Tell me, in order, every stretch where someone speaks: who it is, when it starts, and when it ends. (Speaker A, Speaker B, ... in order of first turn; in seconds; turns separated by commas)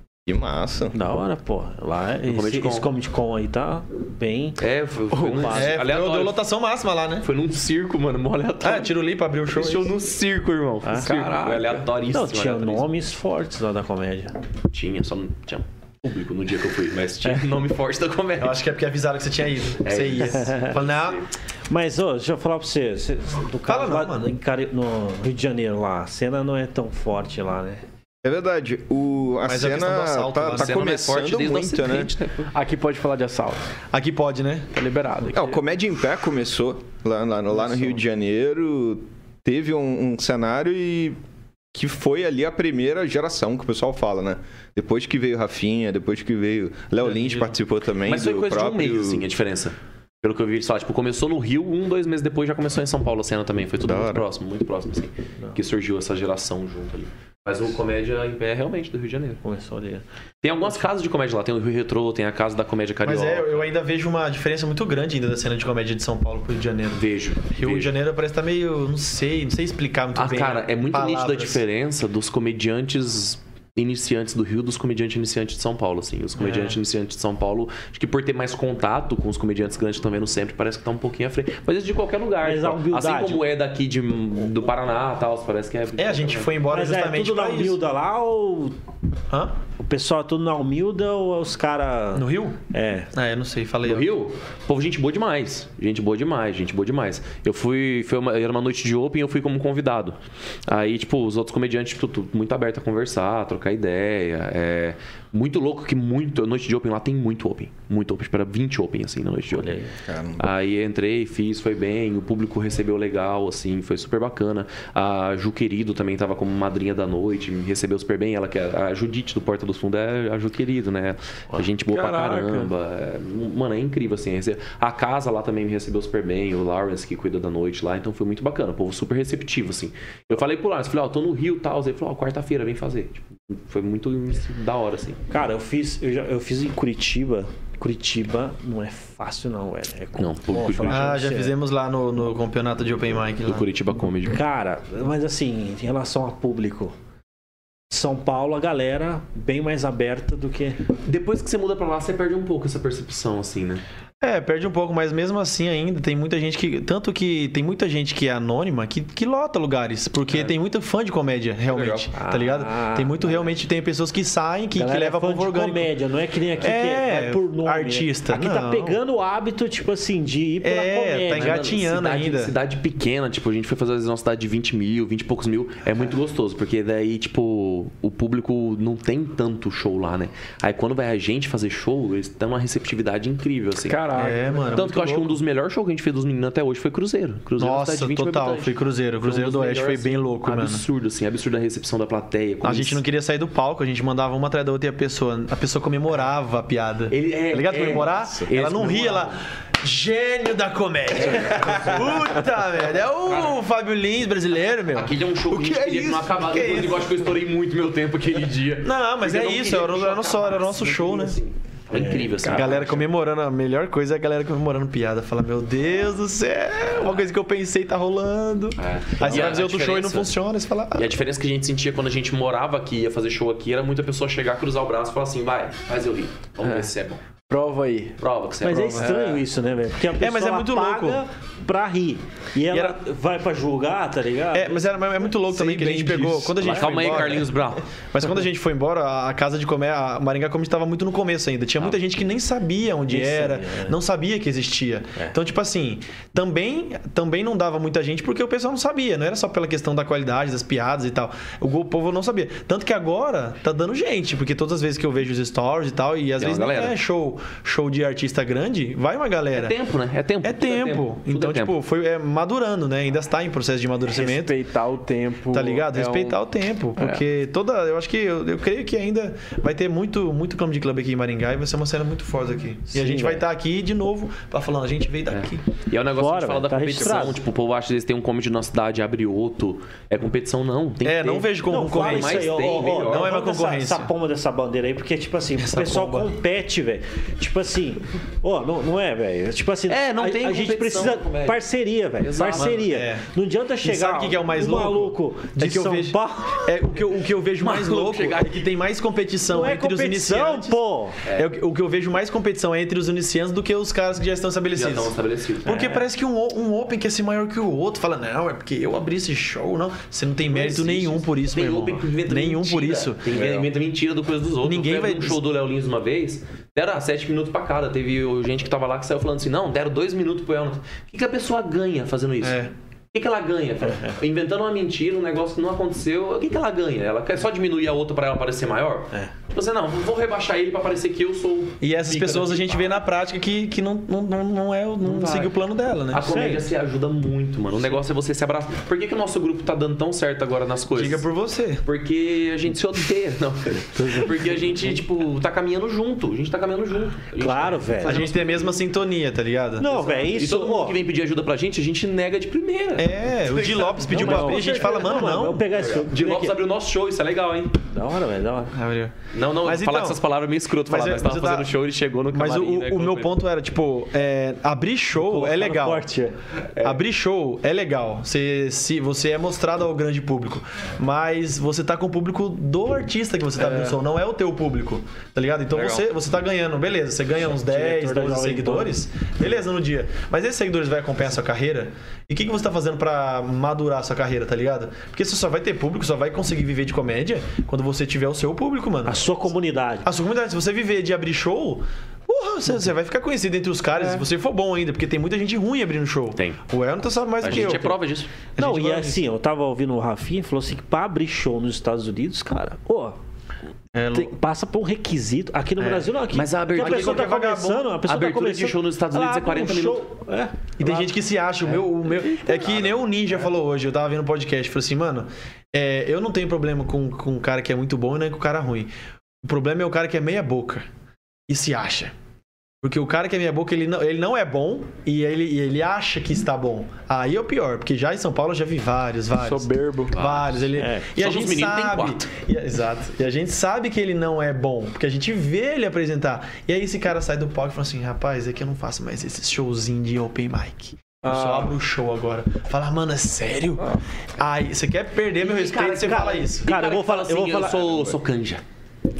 Speaker A: 0.3-1.0, Speaker B: 0.9-5.7, Speaker C: 2.3-2.9, Speaker C: 4.6-6.4, Speaker D: 5.5-7.3, Speaker C: 7.2-8.9, Speaker D: 8.6-9.9, Speaker C: 9.5-12.9, Speaker B: 10.8-11.2, Speaker E: 11.0-11.9, Speaker B: 12.1-14.3, Speaker C: 14.7-18.6, Speaker D: 18.4-21.2, Speaker C: 19.8-21.3, Speaker B: 20.4-20.7, Speaker B: 21.7-27.8, Speaker D: 23.7-24.3, Speaker A: 28.2-32.1, Speaker D: 29.4-30.8, Speaker C: 30.5-32.4, Speaker E: 32.5-33.7, Speaker D: 33.9-34.7, Speaker E: 34.7-35.6, Speaker A: 35.3-41.2, Speaker A: 41.7-49.3, Speaker C: 48.1-59.4, Speaker A: 53.8-54.2, Speaker B: 59.4-60.0, Speaker C: 60.4-63.7, Speaker D: 63.0-71.6, Speaker C: 66.9-67.9, Speaker C: 70.2-86.5, Speaker D: 76.4-76.8, Speaker B: 82.4-83.4, Speaker D: 86.0-87.8, Speaker B: 86.7-88.8, Speaker B: 89.8-93.1, Speaker D: 92.2-92.6, Speaker D: 93.1-94.1, Speaker C: 93.8-109.8, Speaker B: 109.5-109.9, Speaker A: 110.0-110.5, Speaker C: 110.4-135.2, Speaker E: 121.9-122.7, Speaker B: 135.3-141.6, Speaker C: 140.2-141.2, Speaker D: 140.9-143.7, Speaker C: 143.4-144.4, Speaker B: 144.3-146.9, Speaker B: 147.9-150.8, Speaker C: 151.1-153.8, Speaker D: 154.2-165.9, Speaker A: 161.7-162.1, Speaker B: 162.2-163.6, Speaker B: 164.7-171.7, Speaker D: 166.6-169.0, Speaker D: 170.6-172.6, Speaker C: 171.3-184.1, Speaker E: 183.9-184.8, Speaker D: 184.1-185.4, Speaker C: 184.7-193.0, Speaker D: 187.6-190.8, Speaker D: 192.6-205.1, Speaker C: 197.1-199.4, Speaker A: 198.2-198.4, Speaker C: 201.1-202.3, Speaker C: 203.3-203.6, Speaker C: 204.9-212.9, Speaker A: 205.5-206.3, Speaker D: 206.3-207.0, Speaker D: 208.8-211.4, Speaker B: 211.9-213.0, Speaker D: 212.5-221.2, Speaker C: 218.8-220.3, Speaker C: 220.9-227.2, Speaker E: 227.5-228.2, Speaker C: 228.2-229.2, Speaker B: 228.6-236.7, Speaker E: 229.0-229.4, Speaker D: 230.2-231.2, Speaker D: 232.7-233.0, Speaker D: 234.5-237.6, Speaker C: 236.6-237.8, Speaker D: 238.1-259.8, Speaker B: 243.1-244.0, Speaker C: 256.4-256.9, Speaker C: 259.6-261.8, Speaker D: 260.4-264.6, Speaker E: 264.1-266.4, Speaker D: 265.5-275.6, Speaker E: 267.0-267.2, Speaker B: 272.9-273.4, Speaker C: 275.3-283.3, Speaker B: 276.1-277.4, Speaker D: 281.0-284.1, Speaker B: 281.7-296.7, Speaker D: 285.6-286.3, Speaker C: 289.9-291.6, Speaker C: 292.2-292.8, Speaker D: 292.6-293.3, Speaker D: 293.8-300.8, Speaker C: 297.6-298.6, Speaker B: 299.5-301.2, Speaker D: 301.3-313.3, Speaker C: 304.7-305.8, Speaker B: 305.7-306.0, Speaker C: 310.5-332.9, Speaker A: 313.3-313.7, Speaker D: 314.6-315.4, Speaker D: 322.4-322.7, Speaker B: 323.9-324.1, Speaker D: 331.8-336.3, Speaker C: 335.0-335.5, Speaker C: 336.1-341.3, Speaker B: 336.2-336.7, Speaker D: 340.9-341.8, Speaker C: 341.8-348.6, Speaker B: 343.9-344.3, Speaker B: 347.4-348.3, Speaker D: 348.0-350.3, Speaker B: 349.8-351.0, Speaker C: 350.2-354.8, Speaker D: 353.0-355.8, Speaker B: 354.1-356.6, Speaker C: 355.8-357.8, Speaker B: 357.9-358.8, Speaker D: 358.7-360.2, Speaker C: 359.3-363.4, Speaker D: 360.9-361.7, Speaker D: 362.3-366.1, Speaker B: 365.2-366.4, Speaker D: 366.8-389.2, Speaker A: 375.7-376.1, Speaker B: 377.6-378.9, Speaker B: 389.1-390.1, Speaker D: 390.0-398.0, Speaker C: 397.4-398.3, Speaker D: 398.6-399.2, Speaker B: 398.6-403.2, Speaker D: 403.9-404.3, Speaker B: 404.1-411.1, Speaker D: 405.8-406.1, Speaker C: 406.3-407.4, Speaker D: 406.7-407.9, Speaker C: 408.0-410.0, Speaker D: 410.8-418.9, Speaker B: 412.1-413.0, Speaker D: 419.4-420.9, Speaker D: 421.5-422.1, Speaker D: 422.8-446.7, Speaker E: 429.4-430.1, Speaker C: 430.1-432.2, Speaker B: 430.8-431.1, Speaker E: 441.2-441.7, Speaker C: 445.4-448.6, Speaker B: 445.9-448.0